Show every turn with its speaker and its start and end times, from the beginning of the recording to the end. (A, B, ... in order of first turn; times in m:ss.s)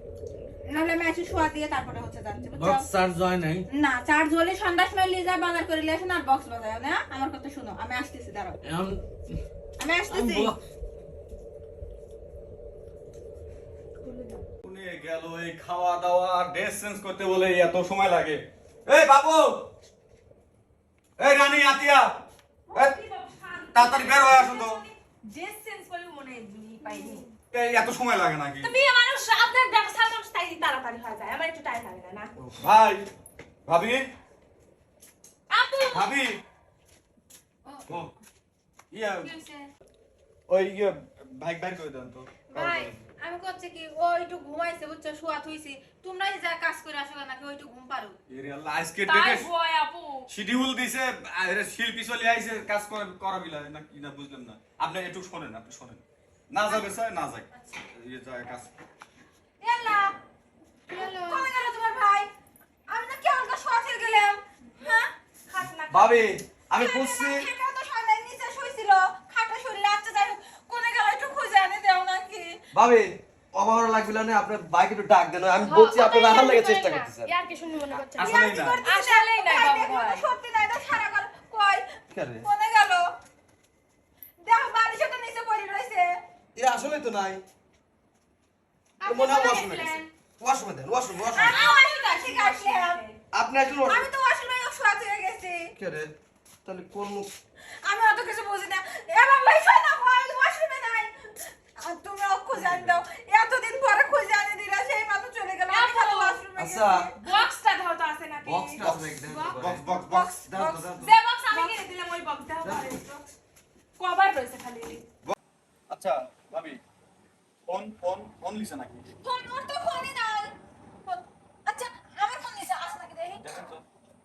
0:00.7-0:02.9 A
0:02.4-0:03.6 B
0:03.7-0:08.6 A
0:08.7-0:09.0 B
0:09.8-0:10.5 A
0:10.1-0:10.6 B
0:14.0-0:14.4 C
0:14.6-0:19.7 D
0:21.2-0:22.2 D
0:22.7-0:27.3 C
0:22.7-0:23.0 D
0:23.7-0:24.8 D
0:27.5-0:28.8 D
0:28.6-0:32.3 C
0:32.6-0:33.1 D
0:33.7-0:34.1 D
0:35.5-0:36.1 C
0:35.9-0:36.4 D
0:37.7-0:38.0 A
0:38.9-0:39.3 D
0:39.2-0:39.7 A
0:40.5-0:43.0 D
0:42.5-0:48.2 A
0:48.3-0:49.5 D
0:49.1-0:50.3 C
0:50.3-0:58.7 D
0:59.6-1:00.1 A
1:00.9-1:01.5 C
1:00.9-1:02.3 A
1:02.9-1:05.1 A
1:04.8-1:06.3 C
1:05.9-1:07.5 E
1:06.8-1:12.5 A
1:12.7-1:17.3 E
1:15.6-1:20.3 C
1:18.2-1:18.8 D
1:18.2-1:21.8 A
1:22.1-1:22.5 E
1:22.4-1:23.0 A
1:24.4-1:26.1 A
1:26.6-1:27.4 E
1:29.0-1:30.1 C
1:29.0-1:31.6 E
1:31.3-1:33.2 C
1:31.3-1:33.0 A
1:33.3-1:34.1 E
1:33.8-1:35.7 A
1:35.8-1:36.1 E
1:36.6-1:37.3 E
1:37.8-1:47.4 A
1:42.6-1:42.9 E
1:45.7-1:46.4 C
1:46.6-1:47.1 E
1:47.2-1:49.6 C
1:48.4-1:51.2 E
1:48.8-1:50.4 D
1:49.3-1:51.0 A
1:51.0-1:53.2 C
1:51.5-1:51.8 A
1:52.6-1:53.0 E
1:54.0-1:55.0 C
1:55.9-1:56.8 D
1:57.7-1:59.0 D
1:59.2-2:00.5 A
2:01.1-2:03.4 A
2:03.4-2:03.8 D